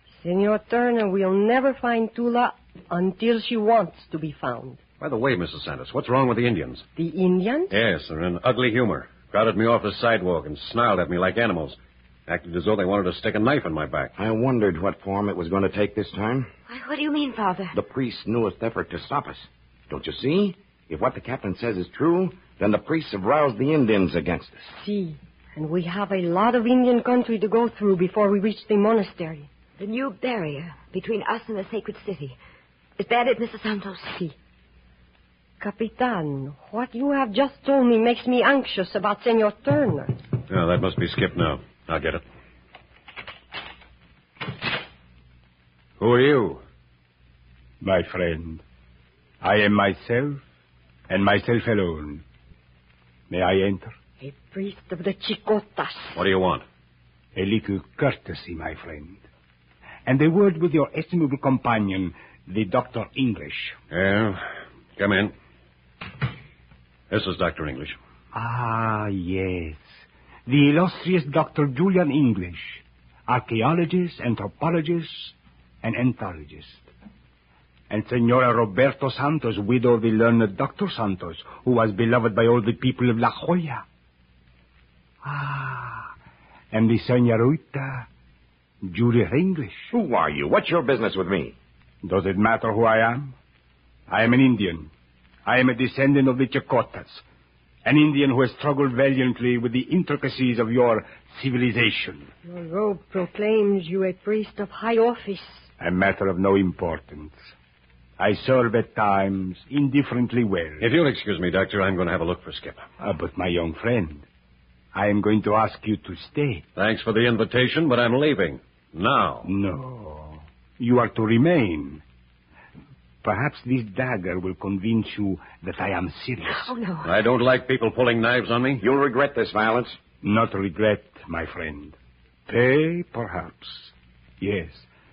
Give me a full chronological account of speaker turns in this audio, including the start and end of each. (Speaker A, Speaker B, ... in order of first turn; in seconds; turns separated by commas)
Speaker A: 0.2-4.8, Speaker B: 5.0-6.8, Speaker A: 7.0-7.7, Speaker B: 7.7-14.1, Speaker C: 14.2-16.5, Speaker D: 16.7-17.8, Speaker C: 17.7-24.6, Speaker A: 24.7-29.5, Speaker D: 29.8-32.4, Speaker D: 33.0-34.4, Speaker A: 35.6-40.2, Speaker B: 40.5-42.2, Speaker B: 46.0-46.6, Speaker E: 47.8-48.6, Speaker E: 49.4-50.4, Speaker E: 51.1-52.2, Speaker E: 53.3-54.0, Speaker A: 54.2-56.2, Speaker B: 56.1-56.6, Speaker E: 57.4-59.2, Speaker E: 60.1-63.8, Speaker B: 63.9-64.5, Speaker B: 65.0-65.3, Speaker B: 67.1-68.0, Speaker E: 68.3-69.9, Speaker E: 70.5-76.9, Speaker E: 77.9-83.8, Speaker E: 85.2-86.1, Speaker E: 86.7-88.1, Speaker E: 88.8-89.9, Speaker C: 89.9-91.5, Speaker E: 92.0-93.3, Speaker E: 94.1-94.9, Speaker E: 95.5-97.2, Speaker E: 97.8-102.3, Speaker A: 102.5-105.7, Speaker E: 105.8-107.4, Speaker E: 108.2-110.9, Speaker B: 110.8-112.8, Speaker E: 113.0-114.2, Speaker E: 114.9-116.7, Speaker B: 116.8-119.5, Speaker E: 119.4-122.0, Speaker E: 123.2-126.7, Speaker D: 126.6-127.1, Speaker B: 127.0-128.8, Speaker C: 128.8-130.0, Speaker E: 130.2-132.0, Speaker E: 132.5-134.9